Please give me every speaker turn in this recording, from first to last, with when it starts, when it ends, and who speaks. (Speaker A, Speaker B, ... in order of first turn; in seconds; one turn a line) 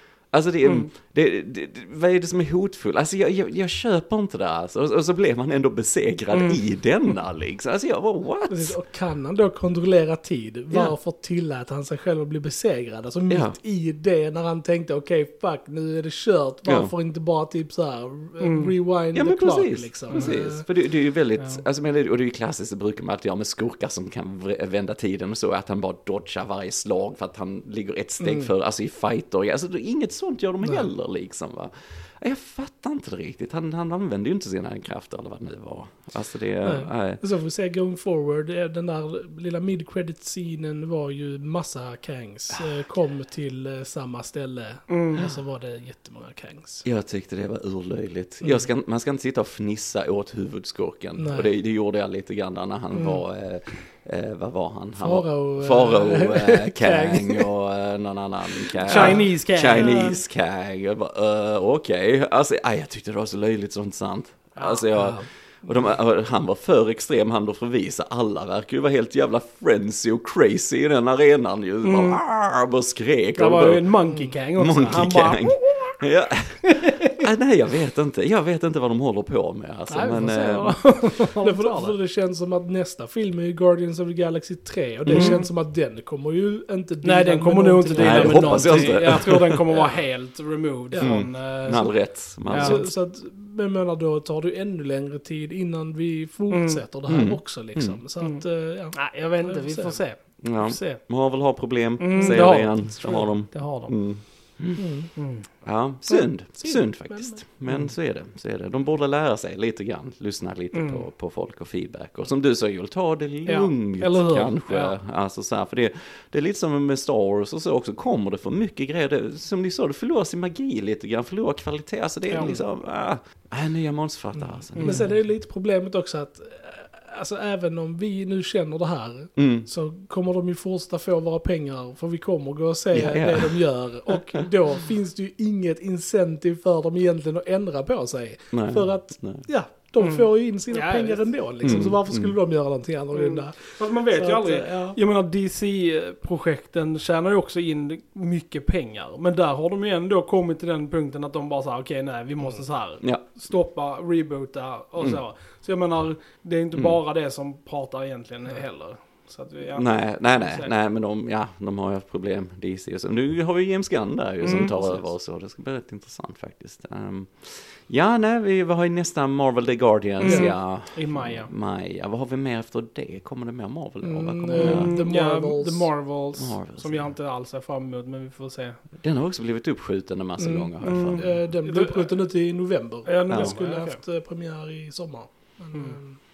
Speaker A: 0.3-8.8
Speaker B: 6.3-6.6
Speaker C: 8.5-20.6
Speaker A: 13.3-13.6
Speaker A: 16.7-16.9
Speaker B: 18.4-18.7
Speaker A: 19.1-37.2
Speaker B: 20.1-20.4
Speaker C: 28.2-28.5
Speaker C: 36.6-46.9
Speaker B: 44.9-45.3
Speaker A: 46.8-80.8
Speaker C: 51.2-51.5
Speaker C: 52.9-53.2
Speaker C: 55.0-57.5
Speaker B: 58.9-60.2
Speaker C: 58.9-59.3
Speaker C: 64.9-65.3
Speaker B: 71.8-72.2
Speaker B: 73.4-76.0
Speaker C: 74.1-74.4
Speaker B: 76.6-77.2
Speaker B: 79.9-82.0
Speaker C: 81.4-89.1
Speaker A: 85.0-85.4
Speaker B: 85.1-85.5
Speaker B: 87.0-92.8
Speaker A: 87.9-89.6
Speaker C: 90.9-91.2
Speaker A: 91.0-92.9
Speaker C: 92.5-100.0
Speaker B: 96.5-96.8
Speaker A: 97.1-98.0
Speaker B: 98.9-101.1
Speaker A: 100.4-104.8
Speaker B: 102.0-104.0
Speaker C: 102.2-102.5
Speaker C: 104.8-105.1
Speaker B: 105.2-105.5
Speaker A: 105.6-125.1
Speaker C: 106.1-107.4
Speaker B: 110.7-111.0
Speaker B: 113.5-115.0
Speaker B: 122.3-122.6
Speaker C: 124.4-145.0
Speaker B: 124.8-125.1
Speaker A: 129.4-129.7
Speaker A: 132.9-133.6
Speaker A: 138.5-139.5
Speaker B: 140.0-141.3
Speaker A: 141.6-142.4
Speaker B: 143.1-160.7
Speaker A: 159.8-174.9
Speaker B: 164.4-165.0
Speaker B: 170.2-171.5
Speaker C: 170.2-170.5
Speaker C: 174.0-175.9
Speaker B: 174.5-178.8
Speaker A: 176.4-177.2
Speaker A: 179.0-181.4
Speaker C: 180.4-186.2
Speaker B: 180.8-182.1
Speaker B: 183.1-184.0
Speaker A: 183.3-183.6